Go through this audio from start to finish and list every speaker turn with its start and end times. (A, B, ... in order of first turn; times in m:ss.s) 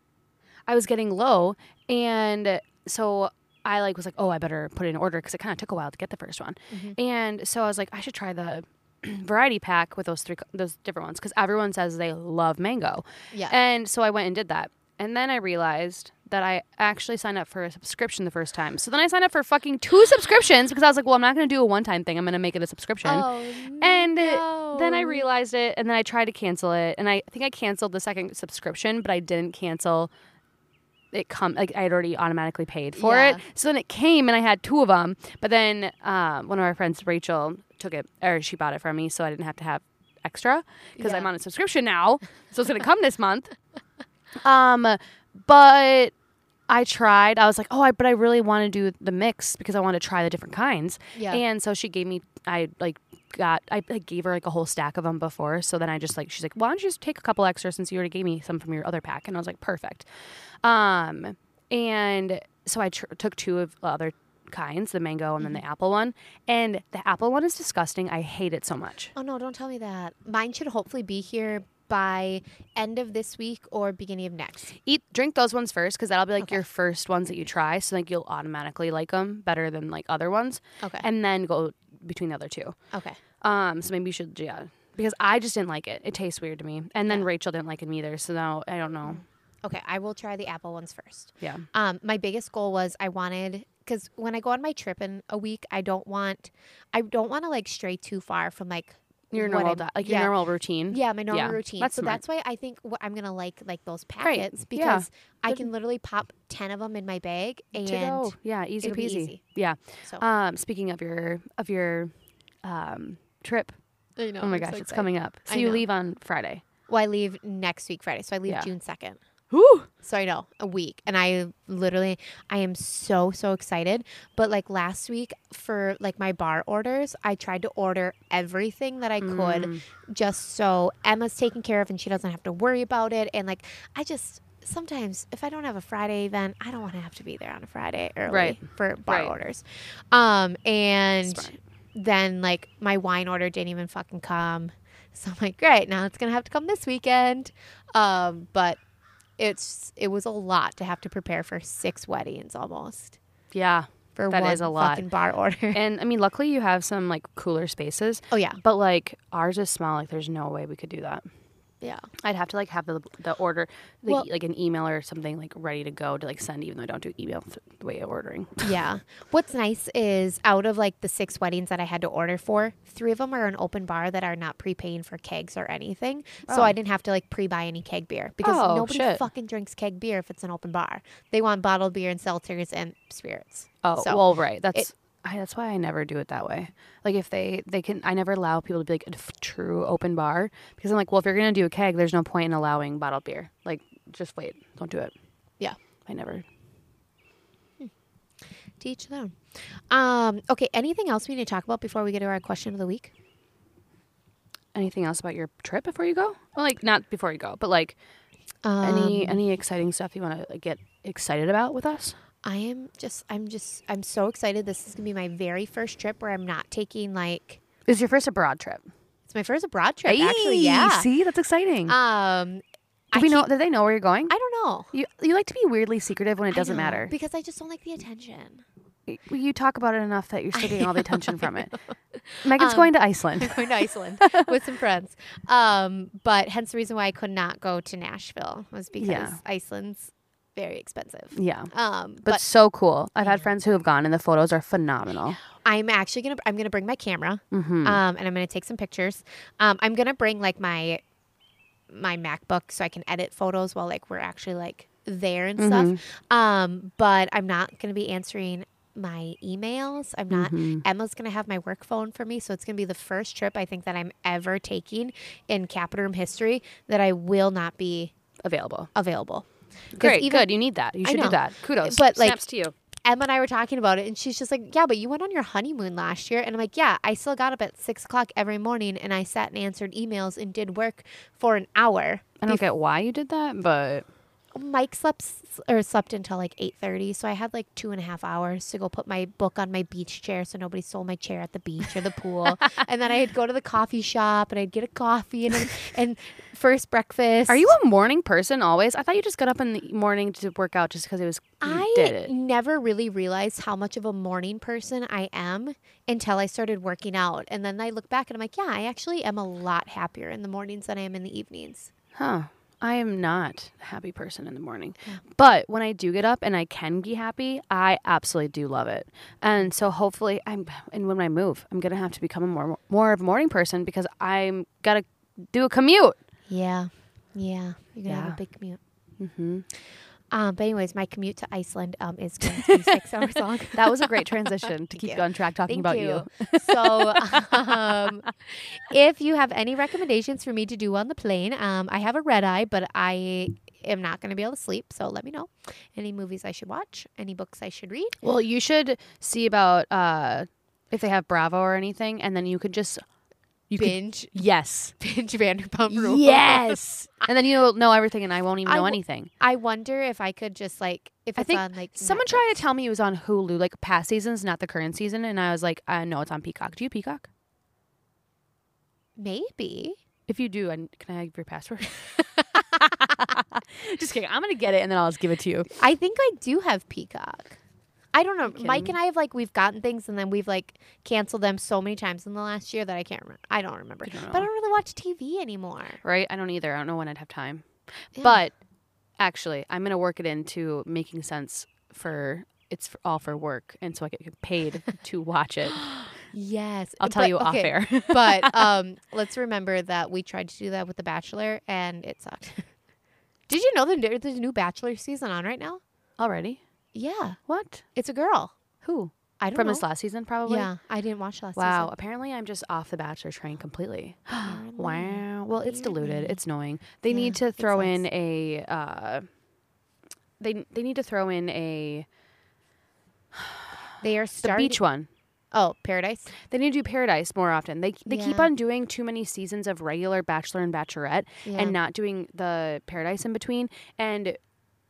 0:00.7-0:30.1 A
0:06.7-0:07.0 B
0:23.0-0:25.3 B
0:31.1-0:43.5 A
0:33.0-0:33.4 B
0:41.0-0:41.3 B
0:44.4-0:46.1 A
0:46.7-1:00.1 A
0:51.2-0:51.4 B
1:00.6-1:09.1 A
1:09.2-1:14.8 B
1:14.8-1:22.8 A
1:20.8-1:21.1 B
1:22.9-1:23.2 B
1:23.4-1:29.2 A
1:29.1-1:40.3 B
1:39.3-1:42.2 A
1:40.9-1:49.4 B
1:44.2-1:45.7 A
1:47.7-1:52.1 A
1:52.6-1:53.7 A
1:54.2-1:55.8 B
1:54.4-1:56.6 A
1:56.9-1:59.2 B
1:59.5-1:59.9 A
2:00.0-2:28.8 B
2:09.2-2:09.8 A
2:18.3-2:19.3 A
2:21.3-2:21.6 A
2:29.4-2:33.2 B
2:33.5-2:35.0 A
2:34.2-2:35.8 B
2:35.7-2:41.2 A
2:38.3-2:38.6 B
2:41.8-2:42.1 B
2:42.2-2:48.7 A
2:48.6-3:04.9 B
2:56.5-2:56.8 A
2:58.4-2:59.2 A
3:03.8-3:15.1 A
3:16.1-3:16.5 A
3:18.8-3:23.1 B
3:24.7-3:28.0 A
3:28.6-3:29.4 B
3:28.8-3:32.2 A
3:32.4-3:37.6 B
3:37.9-3:38.8 A
3:39.3-3:41.1 B
3:40.1-3:42.0 A
3:41.9-3:43.5 B
3:43.1-3:44.3 A
3:44.3-3:44.9 B
3:44.9-3:47.1 A
3:46.5-3:48.6 B
3:49.1-3:51.7 A
3:50.6-4:02.4 B
3:52.4-3:54.5 A
3:59.0-3:59.4 A
4:01.3-4:01.7 A
4:02.2-4:05.4 A
4:03.2-4:03.5 B
4:05.6-4:11.0 B
4:07.5-4:08.0 A
4:11.9-4:28.1 B
4:15.6-4:16.0 A
4:20.3-4:20.8 A
4:28.4-4:28.9 A
4:29.0-4:32.4 B
4:30.0-4:32.7 A
4:33.0-4:42.6 B
4:42.4-4:44.1 A
4:44.6-4:57.7 B
4:57.5-5:02.3 A
5:01.6-5:11.9 B
5:12.2-5:26.2 A
5:26.5-5:28.8 B
5:28.1-5:28.4 A
5:29.2-5:29.7 A
5:30.3-5:48.2 B
5:33.7-5:38.1 A
5:48.2-5:53.0 A
5:53.7-5:54.9 A
5:53.8-5:54.4 B
5:55.0-5:57.3 B
5:55.9-5:59.3 A
5:58.6-6:02.6 B
6:01.4-6:07.3 A
6:09.2-6:10.0 B
6:10.3-6:15.7 A
6:15.8-6:17.6 B
6:18.1-6:26.0 B
6:18.5-6:19.0 A
6:24.1-6:24.5 A
6:26.0-6:28.6 A
6:28.2-6:28.4 B
6:29.2-6:35.9 A
6:35.9-6:42.7 B
6:37.0-6:38.7 A
6:43.5-6:45.8 B
6:46.2-6:46.6 A
6:46.9-6:47.4 B
6:47.5-6:47.8 A
6:47.9-6:48.6 B
6:48.8-6:50.7 A
6:49.4-6:49.9 B
6:50.4-6:51.9 B
6:51.6-6:59.2 A
6:54.4-6:58.0 B
7:00.4-7:02.1 A
7:03.3-7:03.8 A
7:04.0-7:04.8 B
7:04.4-7:05.1 A
7:05.5-7:06.3 B
7:06.5-7:14.4 A
7:08.1-7:08.5 B
7:11.4-7:11.8 B